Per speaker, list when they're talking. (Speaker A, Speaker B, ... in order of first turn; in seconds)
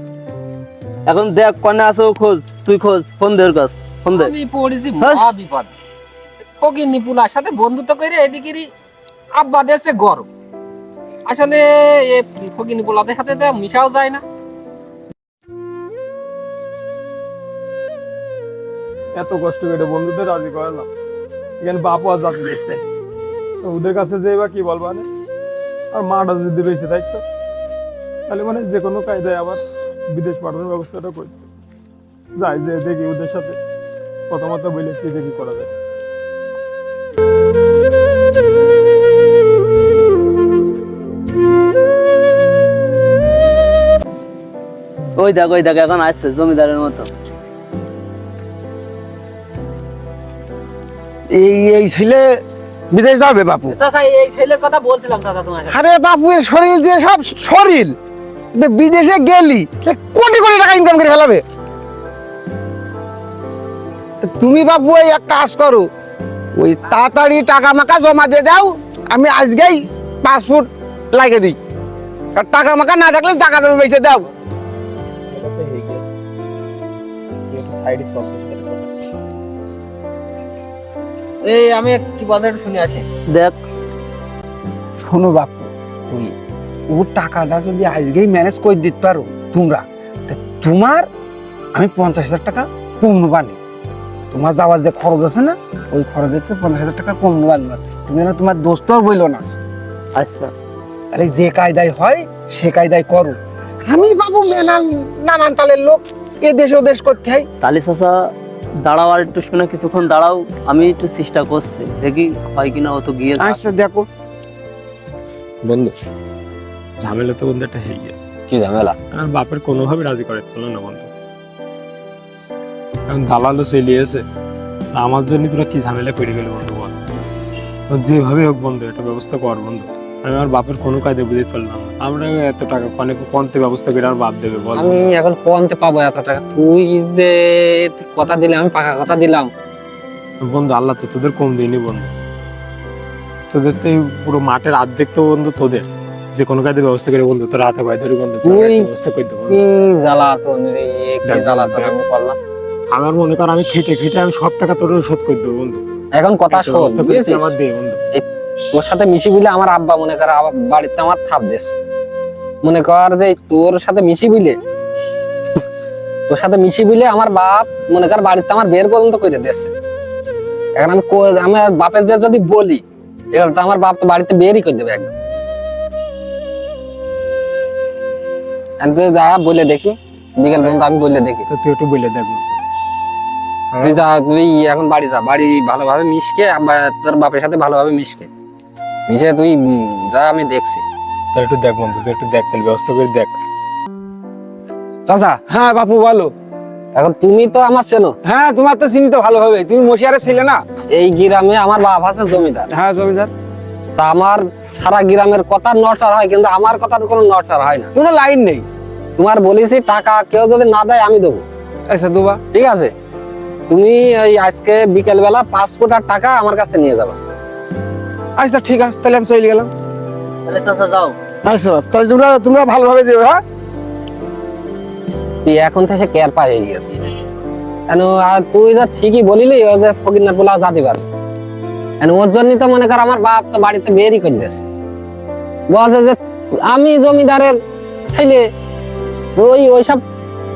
Speaker A: 1.1-4.3, 5.0-5.3, 45.2-47.1, 83.3-83.6, 100.2-100.5, 107.6-108.1, 108.8-113.7, 220.5-221.2
Speaker B: 4.2-5.7, 6.6-8.7, 9.3-10.3, 11.3-14.2, 53.8-55.8, 81.4-83.0, 118.5-119.0, 134.8-139.5, 148.4-148.9, 149.5-152.4, 156.2-157.6, 158.7-161.7, 162.6-164.6, 166.3-169.7, 170.8-172.8, 173.3-175.1, 178.8-181.4, 183.8-188.3, 189.1-190.8, 195.1-195.4, 197.0-198.1, 201.0-202.7, 204.0-207.9, 209.2-211.4, 212.5-212.9, 213.7-217.2, 225.4-226.9, 227.9-231.1, 232.0-234.6, 235.7-236.2, 236.7-237.5, 238.1-238.4, 239.4-240.0
Speaker C: 19.2-20.9, 21.6-22.8, 23.6-25.0, 26.0-27.2, 28.3-29.6, 30.1-31.4, 32.4-33.6, 34.3-35.7
Speaker D: 51.3-52.3, 52.9-53.8, 55.7-58.0, 58.5-61.4, 64.2-65.9, 66.6-71.6, 72.3-74.3, 85.0-86.3, 86.9-91.1, 91.8-93.6, 94.3-99.5, 101.1-103.4, 103.9-107.5, 113.4-114.1, 195.5-196.3, 198.2-200.6, 202.7-203.3, 207.9-208.7, 211.9-212.4, 218.4-219.7, 221.4-223.4
Speaker E: 75.3-76.1, 77.5-78.8, 115.6-115.9, 117.0-118.3, 119.1-121.1, 123.1-124.2, 124.9-126.9, 127.9-135.1, 140.4-142.1, 143.5-149.6, 151.3-152.0, 152.9-155.8, 156.5-158.0, 181.5-182.6, 183.7-184.0, 191.3-193.4